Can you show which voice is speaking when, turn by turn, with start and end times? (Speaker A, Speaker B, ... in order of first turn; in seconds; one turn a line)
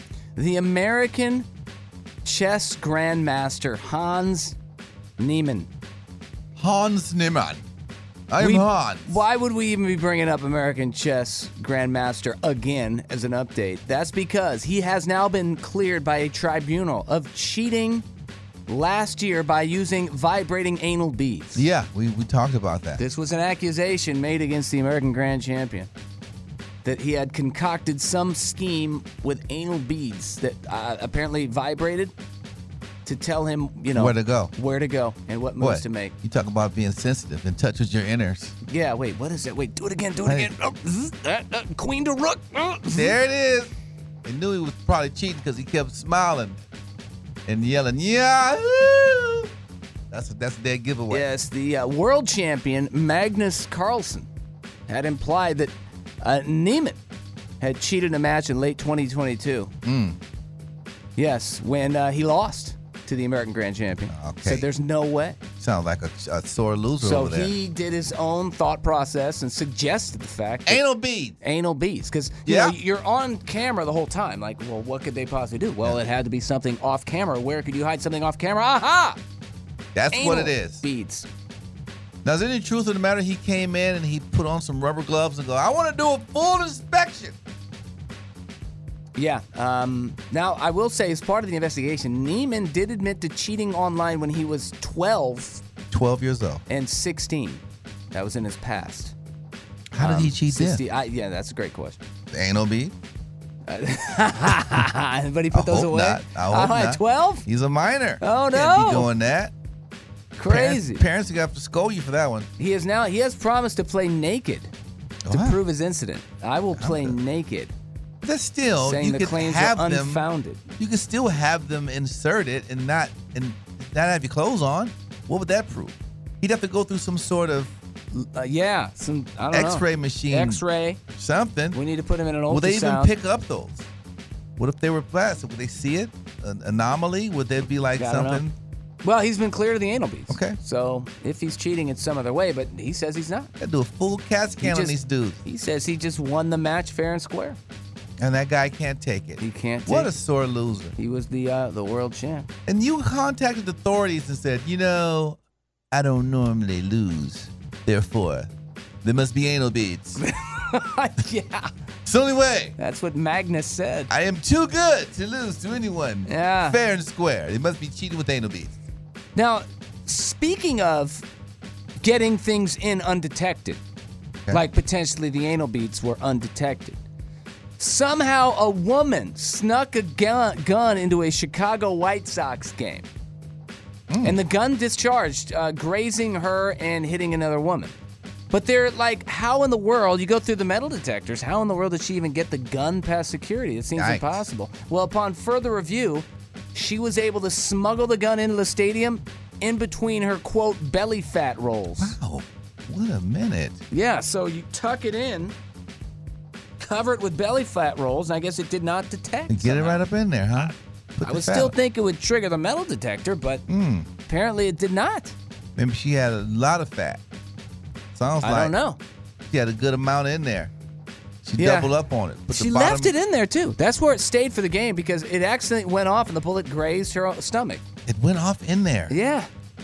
Speaker A: 0.3-1.5
Speaker A: 2.2-4.6
Speaker A: 5.2-5.7
Speaker B: 6.6-7.7
Speaker B: 8.3-9.2
Speaker A: 8.4-18.1
Speaker A: 18.7-21.7
Speaker B: 21.5-23.0
Speaker A: 23.0-25.9
Speaker A: 26.8-32.1
Speaker A: 33.0-36.1
Speaker B: 33.9-34.5
Speaker B: 35.6-38.5
Speaker A: 38.6-43.2
Speaker B: 40.2-40.5
Speaker B: 42.9-43.7
Speaker B: 44.2-46.6
Speaker B: 47.5-49.5
Speaker B: 50.1-51.3
Speaker A: 51.1-54.3
Speaker A: 54.9-57.0
Speaker A: 57.6-59.7
Speaker B: 59.8-60.2
Speaker A: 61.2-65.4
Speaker B: 64.1-64.7
Speaker B: 65.6-67.5
Speaker A: 67.0-70.8
Speaker B: 70.7-71.3
Speaker A: 71.4-79.2
Speaker B: 72.5-72.8
Speaker B: 79.9-80.8
Speaker A: 80.1-81.3
Speaker B: 82.2-87.4
Speaker A: 89.2-95.6
Speaker B: 95.9-96.6
Speaker A: 96.7-99.1
Speaker B: 99.9-100.8
Speaker A: 100.0-102.0
Speaker B: 102.3-102.9
Speaker A: 103.7-107.4
Speaker B: 105.5-109.5
Speaker A: 108.2-109.1
Speaker A: 110.3-111.0
Speaker B: 110.5-112.5
Speaker A: 112.6-114.7
Speaker B: 115.2-115.6
Speaker A: 115.3-117.7
Speaker B: 116.8-117.2
Speaker B: 118.2-120.2
Speaker A: 118.8-120.6
Speaker B: 120.8-127.7
Speaker A: 128.1-131.0
Speaker B: 129.5-131.8
Speaker A: 131.7-133.1
Speaker B: 132.5-133.9
Speaker B: 134.6-138.5
Speaker A: 137.9-138.4
Speaker A: 139.0-143.5
Speaker B: 140.3-140.6
Speaker B: 143.6-145.4
Speaker A: 144.6-147.6
Speaker B: 148.2-150.9
Speaker A: 149.4-150.1
Speaker A: 151.0-152.5
Speaker B: 152.7-155.4
Speaker B: 155.9-158.5
Speaker B: 159.0-160.2
Speaker A: 160.2-161.7
Speaker B: 162.1-162.8
Speaker A: 162.8-164.1
Speaker B: 164.1-168.8
Speaker A: 166.2-166.8
Speaker A: 169.3-171.2
Speaker A: 172.0-173.8
Speaker A: 174.5-177.0
Speaker A: 177.8-183.1
Speaker B: 184.1-184.4
Speaker A: 184.2-187.9
Speaker A: 188.5-202.2
Speaker B: 193.9-194.4
Speaker B: 202.0-203.8
Speaker A: 203.9-205.6
Speaker A: 206.8-213.6
Speaker B: 209.5-211.7
Speaker B: 213.7-214.1
Speaker A: 214.3-215.3
Speaker B: 215.8-217.2
Speaker B: 218.1-218.7
Speaker A: 218.4-219.0
Speaker B: 219.5-220.7
Speaker B: 221.4-223.1
Speaker A: 221.6-221.9
Speaker A: 222.5-227.8
Speaker B: 228.1-229.2
Speaker A: 229.1-229.5